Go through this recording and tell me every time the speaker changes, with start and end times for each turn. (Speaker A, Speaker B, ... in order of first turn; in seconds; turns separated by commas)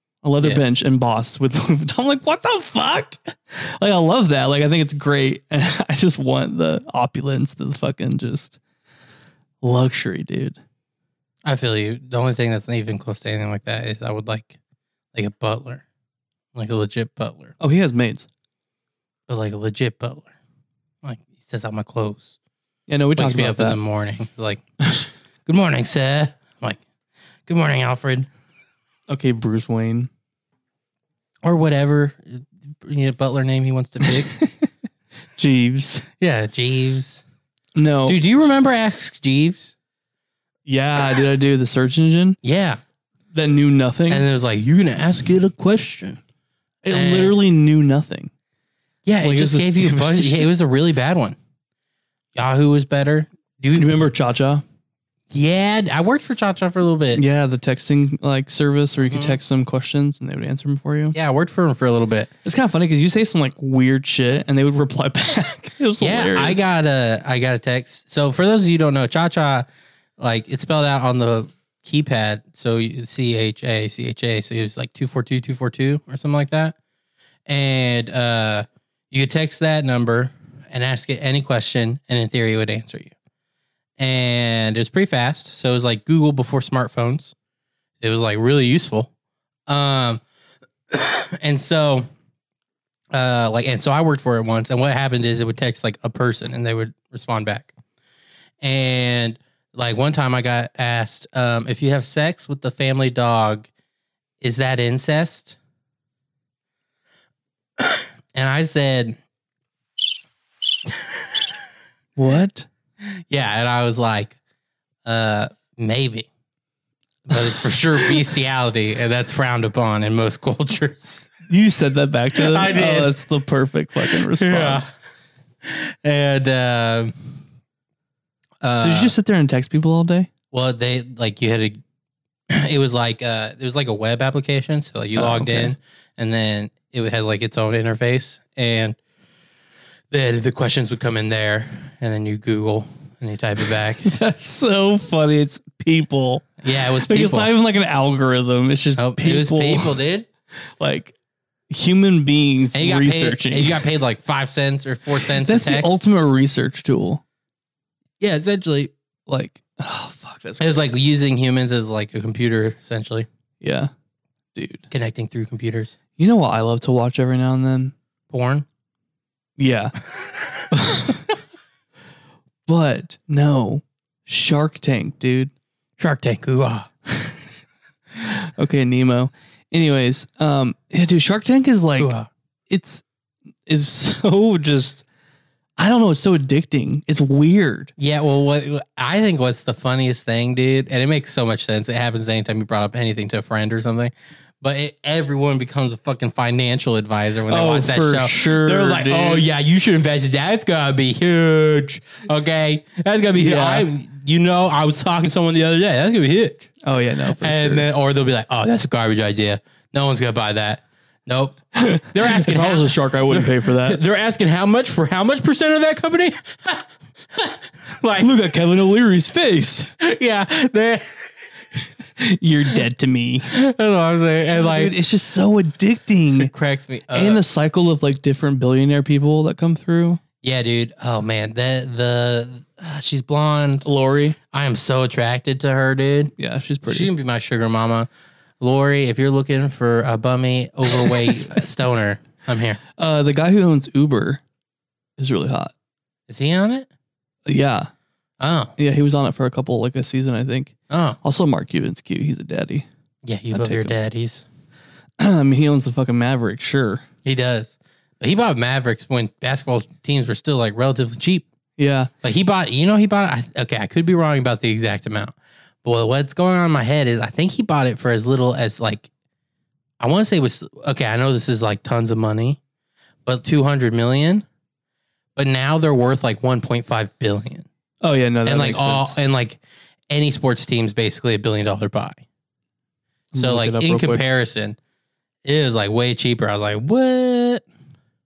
Speaker A: 0.2-8.6, Speaker A: 9.6-10.6, Speaker B: 11.4-14.6, Speaker B: 15.1-15.8, Speaker B: 16.5-17.5, Speaker A: 17.6-18.3, Speaker B: 19.3-20.3, Speaker B: 21.0-22.4, Speaker A: 22.9-23.8, Speaker B: 23.1-24.6, Speaker B: 25.4-26.8, Speaker B: 27.5-28.3, Speaker A: 29.1-30.1, Speaker B: 31.4-34.4, Speaker A: 34.0-34.7, Speaker A: 35.4-36.0, Speaker B: 36.2-37.2, Speaker A: 37.8-38.2, Speaker B: 38.1-39.7, Speaker A: 40.6-42.4, Speaker B: 42.4-42.8, Speaker A: 43.3-44.2, Speaker B: 44.1-46.2, Speaker A: 46.8-48.3, Speaker B: 46.9-47.4, Speaker B: 49.0-51.4, Speaker A: 49.2-50.5, Speaker B: 52.3-53.9, Speaker A: 53.7-54.6, Speaker B: 55.3-57.2, Speaker A: 57.1-61.1, Speaker B: 59.1-59.4, Speaker B: 61.1-62.3, Speaker A: 62.4-66.6, Speaker B: 66.0-69.7, Speaker B: 70.2-76.8, Speaker B: 77.5-83.1, Speaker B: 84.0-87.3, Speaker B: 88.0-89.1, Speaker B: 89.7-90.2, Speaker B: 90.9-92.1, Speaker B: 93.1-97.7, Speaker B: 98.6-103.7, Speaker B: 104.4-105.6, Speaker B: 107.8-109.2, Speaker A: 112.2-112.7, Speaker B: 113.3-114.4, Speaker B: 115.0-116.3, Speaker B: 117.3-121.3, Speaker A: 121.5-124.9, Speaker B: 122.3-123.1, Speaker B: 124.0-124.9, Speaker B: 125.6-127.1, Speaker B: 128.6-129.1, Speaker A: 128.8-130.3, Speaker B: 130.5-131.8, Speaker B: 132.5-139.0, Speaker A: 135.1-135.7, Speaker B: 140.1-144.1, Speaker A: 144.0-150.0, Speaker B: 146.6-147.5, Speaker B: 148.9-150.2, Speaker A: 150.8-151.1, Speaker A: 151.7-153.8, Speaker B: 152.7-156.0, Speaker A: 155.4-157.2, Speaker B: 158.2-158.9, Speaker A: 159.3-160.8, Speaker B: 160.6-163.3, Speaker A: 163.6-163.9, Speaker A: 164.5-164.9, Speaker B: 164.9-165.9, Speaker A: 166.2-167.9, Speaker B: 168.3-168.7, Speaker A: 169.6-170.0, Speaker A: 170.7-171.2, Speaker A: 172.7-175.5, Speaker B: 176.0-176.9, Speaker A: 178.2-182.1, Speaker B: 182.0-182.3, Speaker A: 182.7-183.0, Speaker A: 183.7-185.0, Speaker A: 185.8-187.9, Speaker B: 188.0-206.7, Speaker A: 197.5-199.5, Speaker A: 203.4-203.9, Speaker A: 206.8-207.9, Speaker B: 207.4-218.3, Speaker A: 211.8-214.0, Speaker A: 218.2-219.9, Speaker B: 220.0-221.1, Speaker A: 222.2-223.5, Speaker B: 223.5-224.9, Speaker A: 224.6-226.5, Speaker B: 226.4-227.4, Speaker A: 227.1-230.2, Speaker B: 230.4-233.8, Speaker A: 233.8-234.4, Speaker B: 234.5-236.3, Speaker A: 236.4-237.1, Speaker B: 236.9-238.1, Speaker B: 238.6-242.8, Speaker A: 243.0-244.4, Speaker A: 245.2-245.7, Speaker B: 246.3-246.9, Speaker A: 247.4-247.9, Speaker B: 248.4-248.7, Speaker A: 248.8-252.9, Speaker B: 250.9-251.2, Speaker B: 253.2-254.4, Speaker A: 253.5-253.9, Speaker A: 255.2-257.0, Speaker B: 257.2-261.4, Speaker A: 261.8-262.1, Speaker B: 262.2-269.1, Speaker B: 270.0-272.6, Speaker B: 273.2-274.4, Speaker B: 275.4-277.6, Speaker A: 278.0-279.2, Speaker B: 278.4-282.2, Speaker A: 283.3-284.2, Speaker B: 283.3-284.8, Speaker B: 285.4-287.6